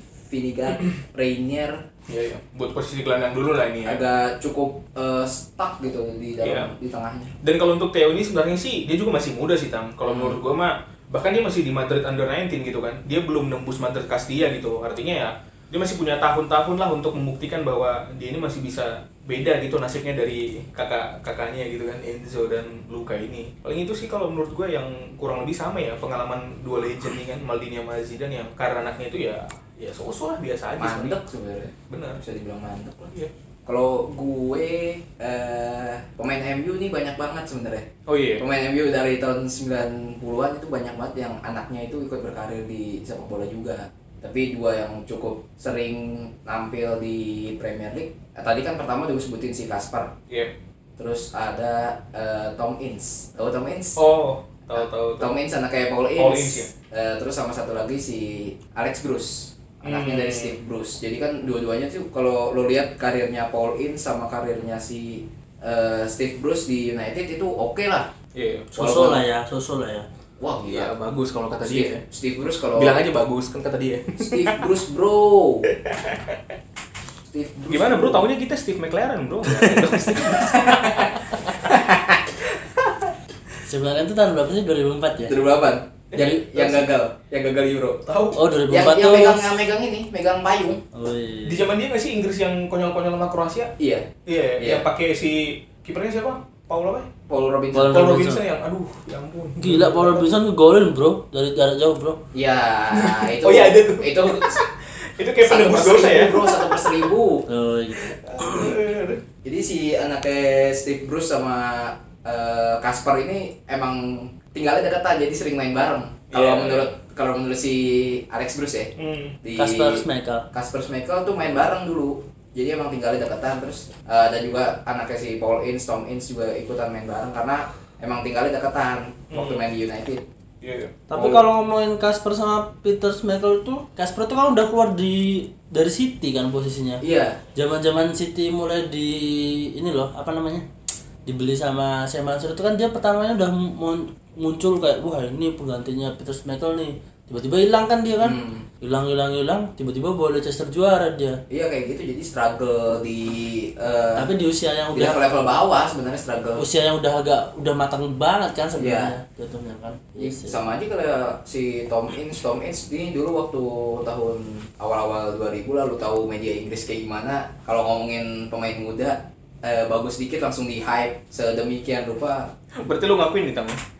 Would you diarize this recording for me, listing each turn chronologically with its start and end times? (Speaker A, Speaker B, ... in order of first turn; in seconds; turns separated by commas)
Speaker A: 0.2-1.8, Speaker B: 2.1-4.0, Speaker A: 3.8-7.3, Speaker B: 6.4-6.7, Speaker B: 7.4-31.1, Speaker A: 10.0-10.4, Speaker A: 30.8-50.1, Speaker B: 31.9-32.2, Speaker B: 38.1-38.4, Speaker B: 50.3-50.5, Speaker A: 51.0-54.0, Speaker B: 54.0-55.3, Speaker A: 54.7-68.1, Speaker B: 56.2-56.7, Speaker B: 59.8-60.6, Speaker B: 68.3-68.7, Speaker A: 68.7-69.2, Speaker C: 68.7-70.0, Speaker A: 70.4-70.9, Speaker B: 70.6-72.0, Speaker A: 71.6-73.0, Speaker B: 72.7-74.6, Speaker A: 74.2-75.7, Speaker B: 75.7-76.4, Speaker A: 77.3-78.3, Speaker B: 77.7-81.6, Speaker A: 79.9-82.3, Speaker C: 83.7-85.4, Speaker A: 85.3-88.0, Speaker B: 86.1-86.9, Speaker B: 88.0-88.4, Speaker C: 88.3-89.5, Speaker A: 88.7-90.8, Speaker C: 90.9-91.6, Speaker B: 91.4-93.7, Speaker A: 93.8-94.8, Speaker B: 94.2-97.1, Speaker A: 97.3-98.1, Speaker C: 97.7-98.4, Speaker B: 97.9-100.2, Speaker C: 99.6-102.2, Speaker A: 102.3-104.6, Speaker B: 102.9-106.8, Speaker A: 105.4-107.5, Speaker C: 107.5-108.7, Speaker B: 108.0-109.2, Speaker A: 109.4-118.9, Speaker B: 116.3-116.9, Speaker B: 119.0-119.4, Speaker A: 119.4-130.2, Speaker C: 119.6-120.5, Speaker B: 129.3-129.6, Speaker B: 130.6-131.4, Speaker C: 131.1-137.0, Speaker A: 137.0-137.4, Speaker C: 137.5-140.7, Speaker C: 141.2-151.4, Speaker A: 148.2-148.7, Speaker A: 151.5-154.3, Speaker C: 154.2-155.2, Speaker A: 154.9-156.6, Speaker C: 156.6-160.6, Speaker A: 158.8-159.1, Speaker A: 160.2-172.5, Speaker B: 172.8-173.8